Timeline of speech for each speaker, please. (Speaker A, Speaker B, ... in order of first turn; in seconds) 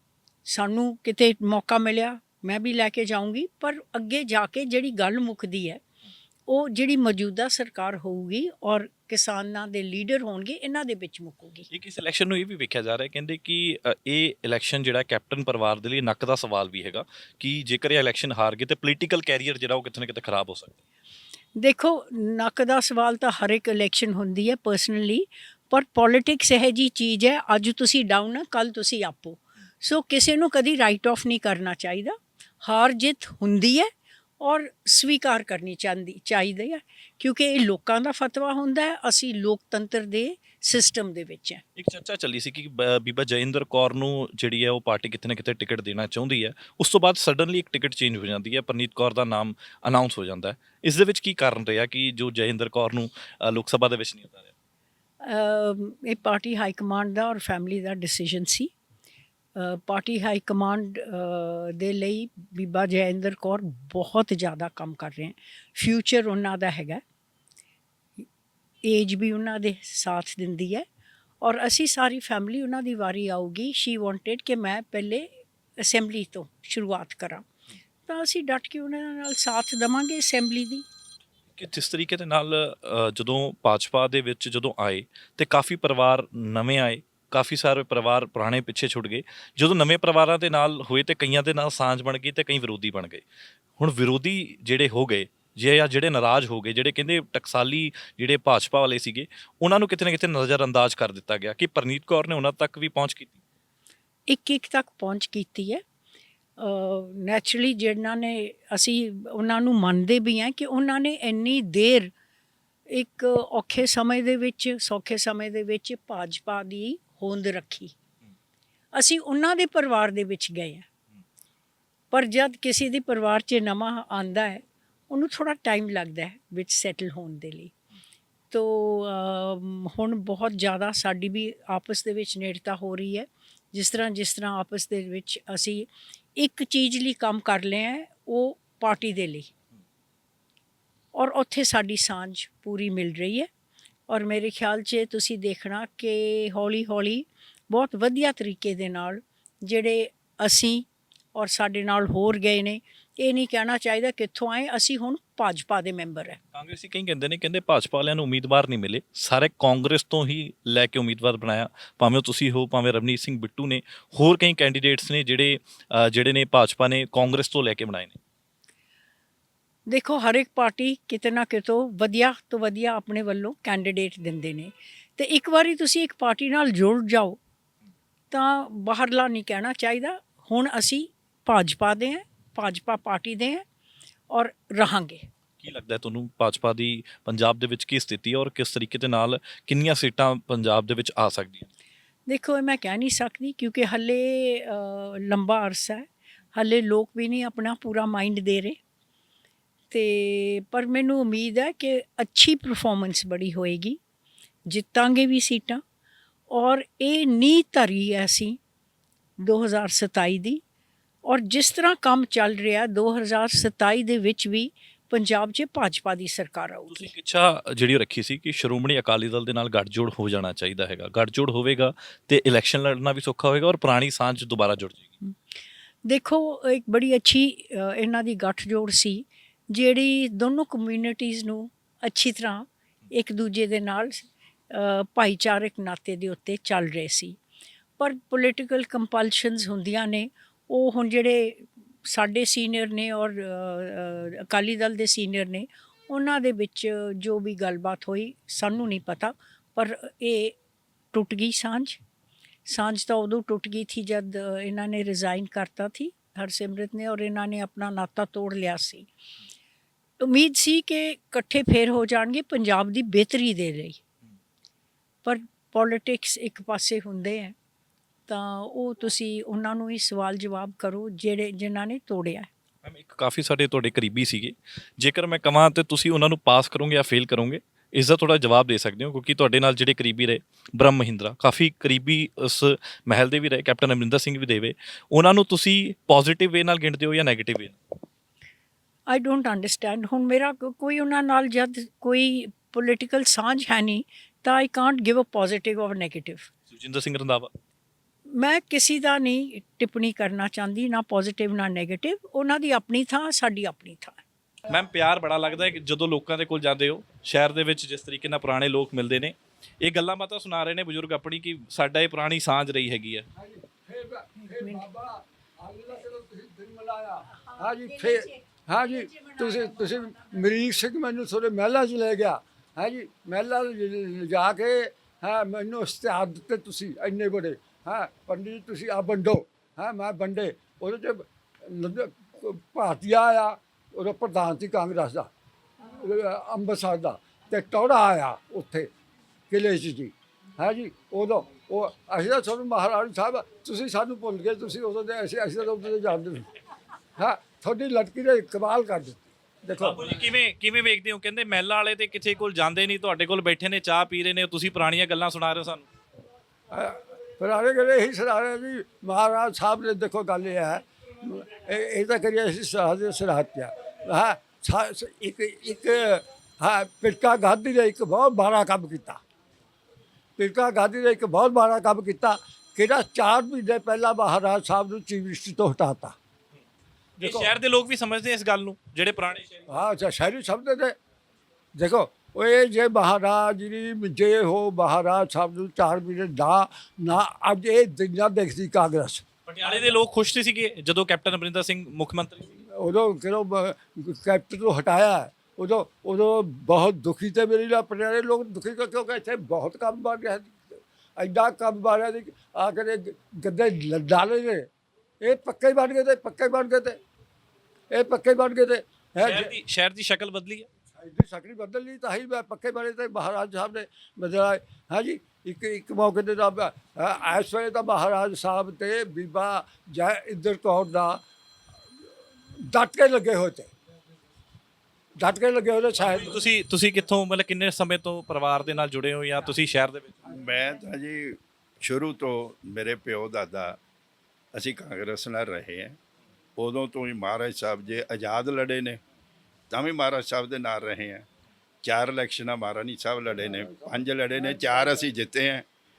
Speaker A: 0.5-5.8, 6.5-11.7, 21.6-41.6, 55.2-58.7, 59.6-67.0, 68.8-70.9, 71.4-77.4, 78.1-80.9, 104.3-105.8, 106.6-112.1, 112.9-117.9, 118.9-120.9, 122.1-127.7, 128.5-139.5, 141.1-143.5, 144.1-156.4, 169.9-177.4, 178.3-183.6, 184.3-185.3, 192.3-198.8, 199.9-204.0, 204.7-205.8, 206.5-208.6, 209.4-210.6, 211.2-217.1, 226.1-237.4, 238.0-250.6, 251.1-252.0, 252.7-259.1, 260.2-264.0, 265.2-267.5, 268.3-272.5, 289.1-296.5, 298.3-304.2, 317.5-320.1
Speaker B: 11.7-20.8, 41.8-54.5, 81.5-93.2, 93.8-103.4, 156.5-168.2, 185.6-191.7, 216.9-225.1, 272.8-287.8, 296.7-297.5, 304.7-313.2, 349.8-355.9, 377.2-379.6, 389.5-392.5, 409.2-410.7, 426.0-430.2
Speaker C: 313.4-335.3, 335.9-338.9, 339.5-346.5, 347.2-350.0, 356.7-369.2, 370.4-376.2, 377.2-377.5, 379.7-380.9, 381.8-389.2, 392.8-404.7, 405.2-407.0, 407.9-409.5, 411.0-421.2, 422.7-423.7, 425.2-426.4, 443.4-445.0
Speaker D: 430.3-433.8, 434.5-436.0, 436.6-439.0, 439.7-441.3, 441.8-445.7